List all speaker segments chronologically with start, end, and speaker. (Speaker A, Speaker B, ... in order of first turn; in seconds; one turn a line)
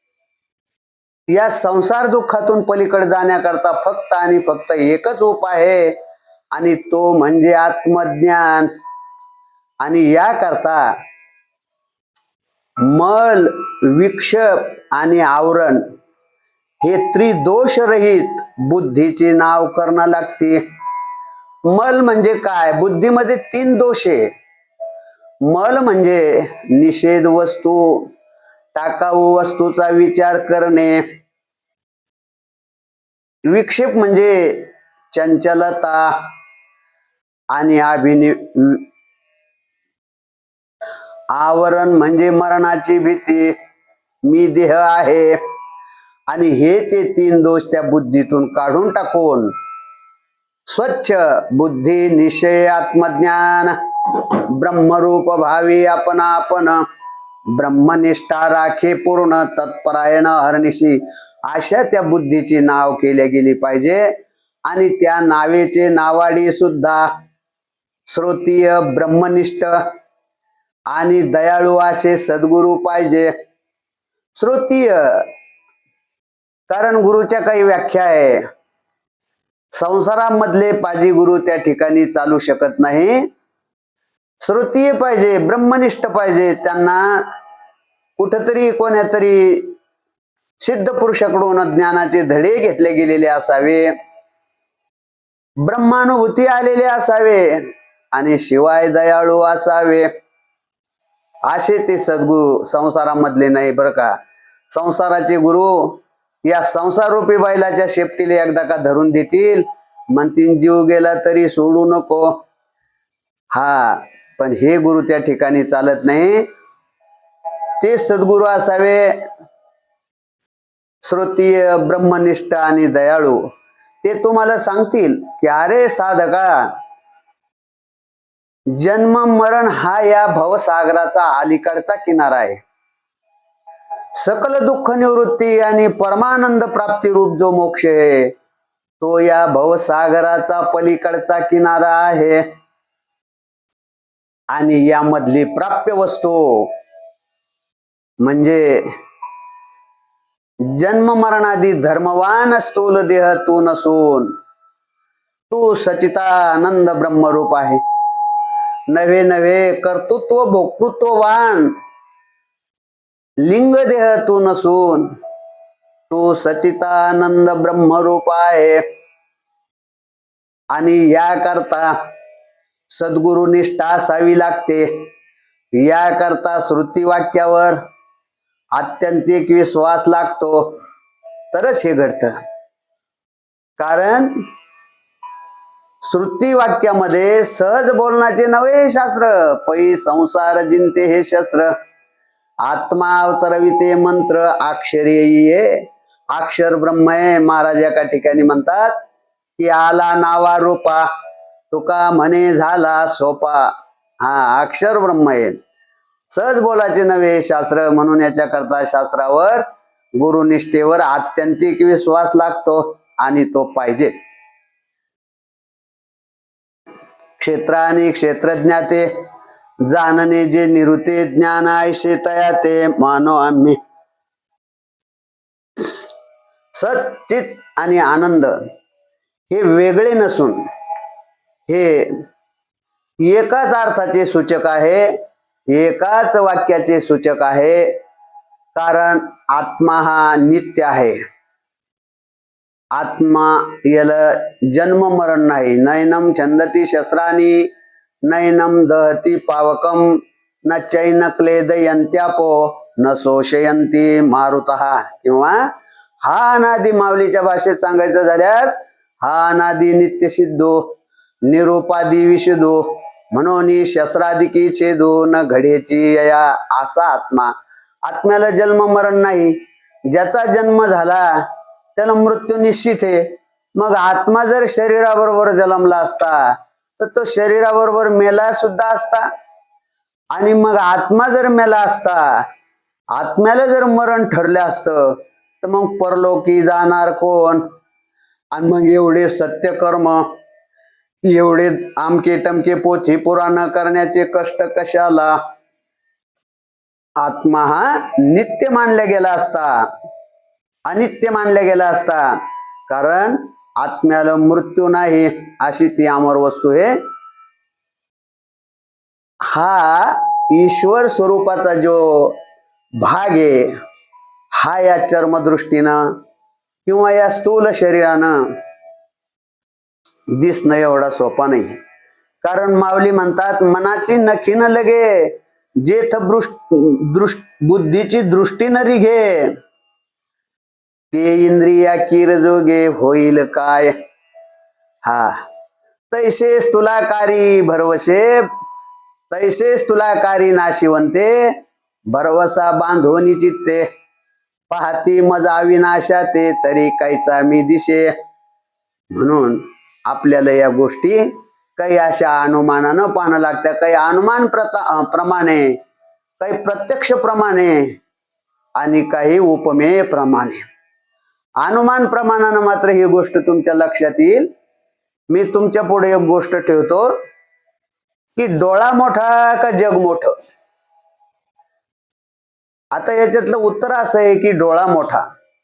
Speaker A: 1.3-5.9
Speaker A: 6.5-8.7
Speaker A: 9.8-10.9
Speaker A: 12.8-15.8
Speaker A: 16.8-20.6
Speaker A: 21.6-24.3
Speaker A: 25.5-28.1
Speaker A: 28.7-31.1
Speaker A: 33.5-36.3
Speaker A: 37.5-38.8
Speaker A: 41.3-43.5
Speaker A: 44.2-45.4
Speaker A: 46.3-49.5
Speaker A: 50.7-56.8
Speaker A: 57.5-64.0
Speaker A: 64.7-67.1
Speaker A: 68.1-69.8
Speaker A: 70.9-73.3
Speaker A: 74.3-75.3
Speaker A: 76.7-78.4
Speaker A: 79.8-83.3
Speaker A: 84.4-87.3
Speaker A: 88.2-89.8
Speaker A: 90.6-93.9
Speaker A: 95.6-100.1
Speaker A: 101.5-104.1
Speaker A: 104.7-112.4
Speaker A: 113.5-116.5
Speaker A: 117.8-119.1
Speaker A: 121.0-123.4
Speaker A: 124.0-126.7
Speaker A: 128.7-132.6
Speaker A: 134.2-138.3
Speaker A: 139.0-142.5
Speaker A: 144.5-146.7
Speaker A: 148.2-148.8
Speaker A: 150.7-154.3
Speaker A: 155.5-157.8
Speaker A: 158.9-161.7
Speaker A: 163.4-165.1
Speaker A: 166.1-168.8
Speaker A: 170.7-172.0
Speaker A: 172.9-175.1
Speaker A: 175.8-177.8
Speaker A: 178.7-180.8
Speaker A: 181.5-182.4
Speaker A: 183.8-184.4
Speaker A: 186.0-191.7
Speaker A: 192.6-195.8
Speaker A: 196.3-199.0
Speaker A: 199.6-201.1
Speaker A: 201.7-205.6
Speaker A: 206.3-209.7
Speaker A: 210.2-214.1
Speaker A: 217.4-219.1
Speaker A: 219.9-223.8
Speaker A: 226.7-228.5
Speaker A: 229.5-230.6
Speaker A: 231.7-232.1
Speaker A: 233.2-235.1
Speaker A: 235.7-237.9
Speaker A: 238.7-241.2
Speaker A: 242.9-247.7
Speaker A: 248.2-250.1
Speaker A: 250.6-255.6
Speaker A: 256.2-267.5
Speaker A: 268.0-269.6
Speaker A: 270.1-271.4
Speaker A: 271.9-279.3
Speaker A: 280.3-282.4
Speaker A: 283.1-287.7
Speaker A: 288.5-290.2
Speaker A: 291.2-295.4
Speaker A: 297.2-299.8
Speaker A: 300.9-302.3
Speaker A: 302.9-307.0
Speaker A: 309.5-312.4
Speaker A: 313.0-313.7
Speaker A: 314.5-316.1
Speaker A: 316.9-318.4
Speaker A: 320.3-321.8
Speaker A: 322.4-329.5
Speaker A: 331.1-333.9
Speaker A: 335.0-335.4
Speaker A: 336.1-338.4
Speaker A: 339.3-341.6
Speaker A: 342.1-343.9
Speaker A: 344.7-348.1
Speaker A: 349.1-355.8
Speaker A: 356.4-357.9
Speaker A: 358.8-360.6
Speaker A: 361.6-364.5
Speaker A: 365.3-367.1
Speaker A: 368.4-370.3
Speaker A: 372.9-375.2